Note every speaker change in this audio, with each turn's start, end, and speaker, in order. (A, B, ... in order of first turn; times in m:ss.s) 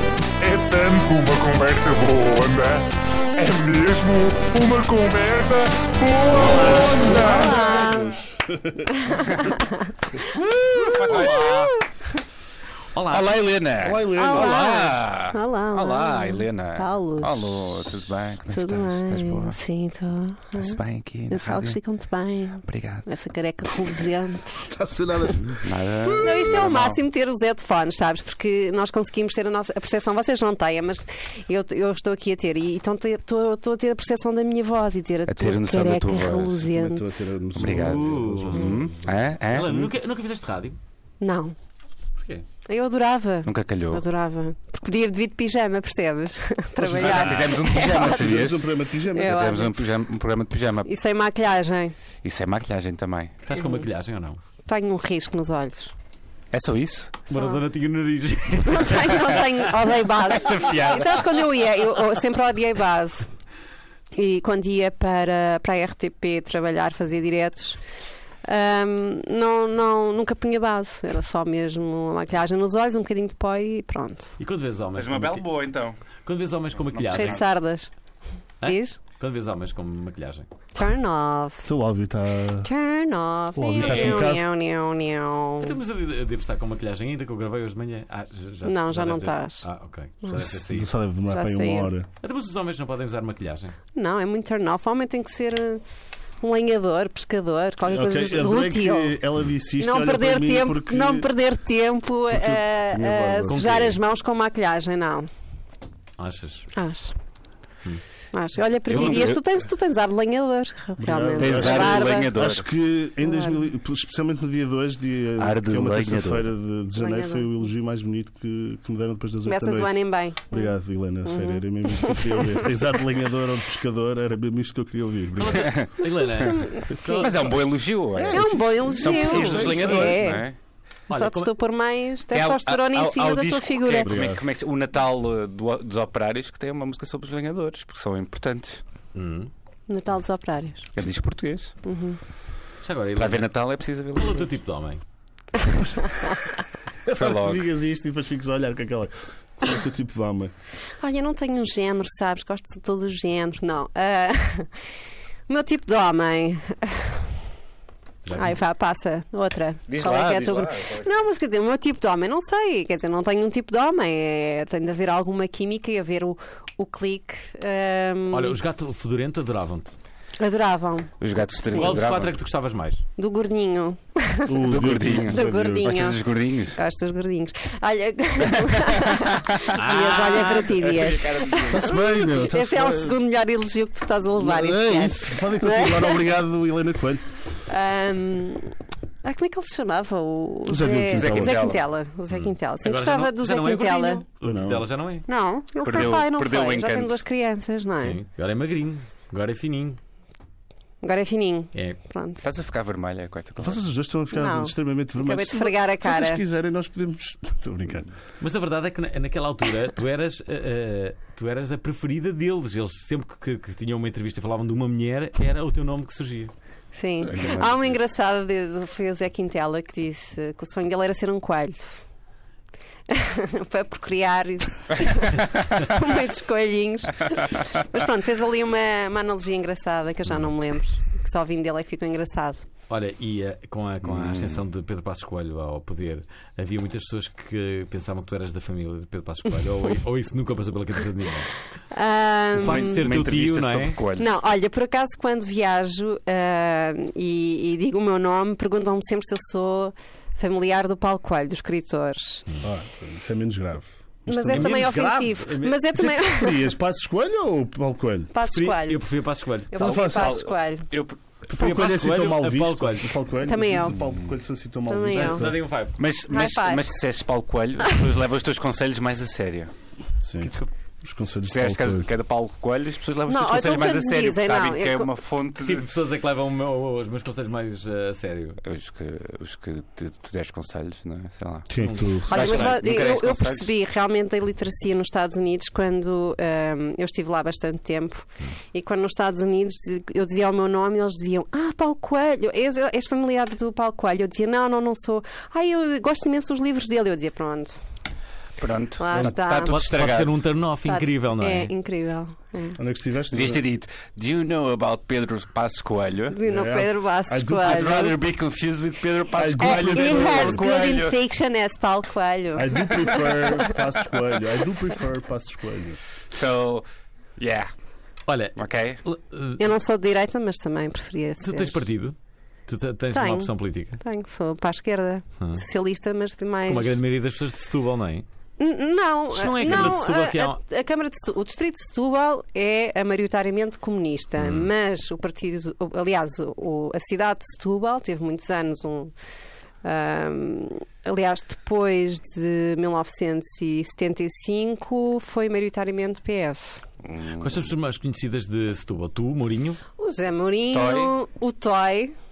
0:00.4-0:07.7 A
0:06.4-0:09.5 B
0:06.5-0:08.2 C
0:08.9-0:09.9 C
0:10.7-0:11.8 D
0:11.0-0:11.8 E
0:11.3-0:11.8 C
0:12.9-0:13.4 E
0:13.1-0:19.6 D
0:13.8-0:14.6 B
0:14.2-0:17.6 C
0:18.5-0:24.7 C
0:20.5-0:21.8 D
0:22.7-0:23.1 D
0:24.6-0:26.4 B
0:25.6-0:27.0 D
0:26.2-0:37.0 C
0:35.3-0:36.7 D
0:36.7-0:40.0 B
0:37.6-0:39.7 D
0:37.7-0:38.8 E
0:39.5-0:40.8 E
0:41.2-0:41.6 C
0:42.2-0:42.4 E
0:42.7-0:48.4 C
0:43.4-0:44.0 D
0:46.8-0:49.5 B
0:46.9-0:50.9 D
0:49.2-0:49.8 C
0:50.8-0:52.0 C
0:52.2-0:53.4 D
0:53.4-0:54.4 E
0:53.5-0:53.9 C
0:54.7-0:55.9 C
0:56.5-0:57.2 D
0:57.3-0:57.6 C
0:57.3-0:59.7 E
0:58.6-1:03.3 C
1:00.3-1:01.4 D
1:04.1-1:07.8 C
1:08.4-1:14.4 C
1:14.4-1:15.4 E
1:15.0-1:16.0 D
1:16.2-1:17.4 E
1:16.8-1:17.5 D
1:17.1-1:17.9 C
1:18.6-1:20.5 E
1:18.6-1:19.0 C
1:20.8-1:21.7 C
1:21.7-1:22.7 B
1:22.6-1:25.8 C
1:23.6-1:24.4 B
1:23.8-1:24.3 E
1:25.6-1:30.9 E
1:28.6-1:29.7 C
1:30.2-1:30.5 C
1:30.3-1:32.1 B
1:31.3-1:31.9 C
1:32.2-1:33.8 E
1:34.0-1:35.8 C
1:36.4-1:39.2 C
1:37.9-1:41.3 B
1:39.8-1:45.3 C
1:42.3-1:43.7 B
1:43.5-1:44.0 E
1:46.2-1:46.7 E
1:46.7-1:47.2 C
1:48.3-1:52.3 C
1:48.9-1:49.4 D
1:51.0-2:05.8 B
1:51.4-1:52.6 D
1:53.2-1:53.6 C
1:55.4-1:56.5 D
1:57.0-1:57.5 C
1:59.4-2:00.7 C
2:01.2-2:02.7 C
2:05.4-2:07.5 E
2:05.5-2:05.9 D
2:06.0-2:07.3 C
2:07.1-2:10.6 D
2:08.2-2:10.2 B
2:08.2-2:10.5 C
2:09.3-2:10.1 E
2:11.1-2:11.5 E
2:11.1-2:14.1 C
2:12.3-2:18.8 D
2:14.0-2:14.4 B
2:19.2-2:19.5 E
2:19.9-2:20.9 C
2:20.9-2:21.8 D
2:21.8-2:22.2 C
2:22.8-2:23.5 E
2:23.2-2:24.5 D
2:24.2-2:25.0 E
2:27.1-2:27.7 D
2:27.1-2:30.5 B
2:31.0-2:34.7 C
2:35.5-2:37.3 C
2:38.2-2:38.6 E
2:38.3-2:48.6 C
2:39.9-2:41.2 D
2:48.3-2:50.0 E
2:50.4-2:51.1 C
2:51.2-2:52.4 D
2:51.7-2:53.0 E
2:53.2-3:06.2 C
2:54.5-2:56.1 B
2:54.7-2:56.8 D
2:59.6-3:01.9 D
2:59.7-3:00.9 E
3:01.7-3:03.2 B
3:04.4-3:07.2 B
3:07.7-3:08.7 C
3:09.2-3:14.2 C
3:10.7-3:11.8 B
3:11.1-3:11.8 D
3:12.3-3:15.3 E
3:14.4-3:14.9 B
3:15.3-3:18.2 C
3:15.8-3:17.2 D
3:18.0-3:20.0 E
3:21.0-3:22.4 C
3:22.4-3:23.8 D
3:23.6-3:28.1 B
3:24.3-3:26.4 C
3:28.4-3:36.5 E
3:36.9-3:42.0 C
3:37.2-3:38.0 D
3:43.1-3:52.7 C
3:52.9-4:01.6 E
3:54.0-3:54.6 D
4:01.9-4:03.2 C
4:02.6-4:04.3 D
4:02.6-4:04.0 E
4:04.2-4:12.5 C
4:12.6-4:14.9 B
4:14.3-4:16.7 C
4:14.5-4:15.9 E
4:16.0-4:18.3 B
4:18.3-4:19.1 C
4:18.4-4:19.7 E
4:19.7-4:20.9 C
4:19.7-4:20.5 B
4:19.8-4:21.2 D
4:21.5-4:25.6 B
4:21.5-4:23.1 E
4:23.4-4:24.0 C
4:24.9-4:25.5 C
4:25.1-4:26.0 E
4:26.0-4:29.7 D
4:26.3-4:26.9 C
4:30.2-4:32.1 B
4:30.4-4:30.7 E
4:31.3-4:35.9 D
4:33.3-4:35.1 C
4:35.6-4:38.6 E
4:38.6-4:43.7 D
4:41.7-4:42.6 B
4:41.8-4:42.7 E
4:42.3-4:57.8 C
4:58.6-5:00.4 D
4:59.0-4:59.8 C
4:59.7-5:01.7 E
5:00.9-5:02.8 C
5:02.8-5:03.6 B
5:03.3-5:06.4 D
5:06.3-5:08.2 C
5:06.4-5:08.2 B
5:07.6-5:11.2 D
5:09.3-5:10.8 B
5:09.6-5:13.7 C
5:12.6-5:16.0 B
5:16.3-5:16.8 D
5:17.4-5:17.7 D
5:18.3-5:19.6 E
5:18.6-5:19.0 D
5:19.6-5:21.9 C
5:21.4-5:22.2 E
5:22.7-5:24.0 E
5:23.1-5:27.0 C
5:26.7-5:28.2 E
5:28.6-5:39.1 C
5:29.3-5:30.6 E
5:34.4-5:34.7 E
5:39.8-5:46.8 C
5:47.0-5:47.7 D
5:47.4-5:49.8 E
5:50.0-5:52.2 C
5:50.7-5:51.1 D